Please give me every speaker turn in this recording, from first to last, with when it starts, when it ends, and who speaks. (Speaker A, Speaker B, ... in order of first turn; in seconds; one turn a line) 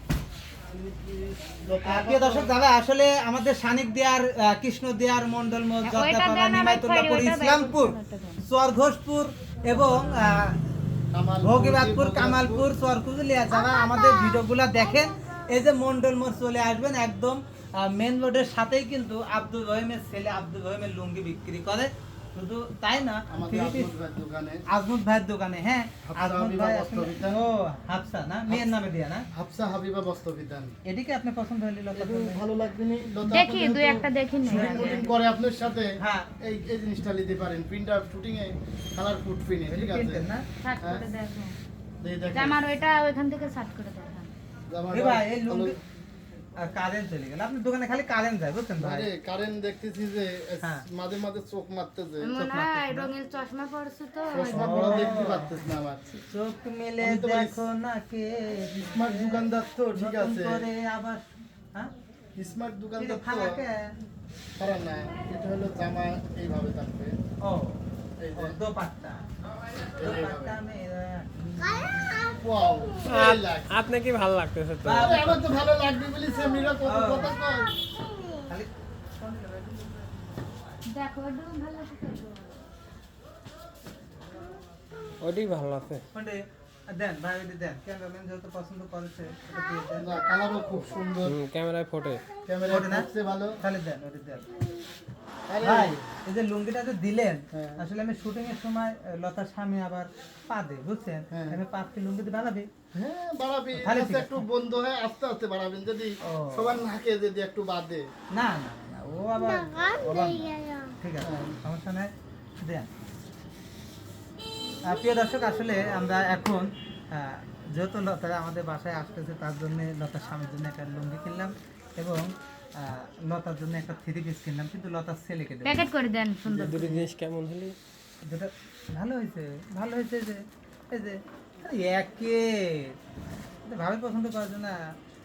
Speaker A: 0.7-2.6
Speaker B: 1.8-10.7
Speaker C: 5.8-8.4
Speaker A: 11.1-12.7
Speaker B: 11.4-23.9
Speaker A: 23.3-24.6
Speaker B: 24.7-29.2
Speaker A: 26.0-27.4
Speaker A: 29.3-30.7
Speaker B: 30.9-32.4
Speaker A: 31.9-40.2
Speaker C: 33.3-35.1
Speaker B: 34.5-35.1
Speaker B: 36.0-36.3
Speaker B: 39.7-40.4
Speaker C: 40.6-41.5
Speaker A: 40.8-41.0
Speaker A: 42.0-42.6
Speaker C: 42.3-44.3
Speaker A: 44.7-45.8
Speaker B: 44.9-45.8
Speaker B: 46.6-49.1
Speaker A: 48.8-52.3
Speaker C: 52.2-55.3
Speaker B: 52.4-53.1
Speaker A: 54.3-56.0
Speaker B: 54.5-55.6
Speaker B: 56.3-61.2
Speaker A: 57.0-57.6
Speaker A: 58.7-60.7
Speaker A: 62.4-63.6
Speaker B: 63.0-63.9
Speaker A: 64.6-67.1
Speaker B: 67.4-67.8
Speaker A: 68.2-68.6
Speaker B: 68.4-69.2
Speaker A: 70.0-70.6
Speaker B: 70.0-72.1
Speaker A: 72.1-73.8
Speaker D: 73.0-75.3
Speaker B: 74.8-75.4
Speaker A: 74.9-77.7
Speaker B: 76.8-77.3
Speaker B: 78.5-80.6
Speaker C: 80.8-82.6
Speaker D: 85.2-86.0
Speaker B: 86.1-90.2
Speaker A: 90.0-91.4
Speaker D: 91.2-92.2
Speaker A: 92.4-93.6
Speaker B: 92.7-93.1
Speaker B: 93.6-94.5
Speaker A: 95.5-96.0
Speaker B: 95.6-102.7
Speaker A: 97.5-97.8
Speaker A: 101.3-101.6
Speaker A: 102.9-108.1
Speaker B: 103.7-104.4
Speaker B: 106.2-106.8
Speaker B: 108.3-112.9
Speaker A: 111.2-111.5
Speaker B: 114.8-125.8
Speaker C: 125.6-126.8
Speaker D: 126.5-127.8
Speaker A: 126.7-127.0
Speaker B: 128.2-133.0
Speaker B: 133.6-134.9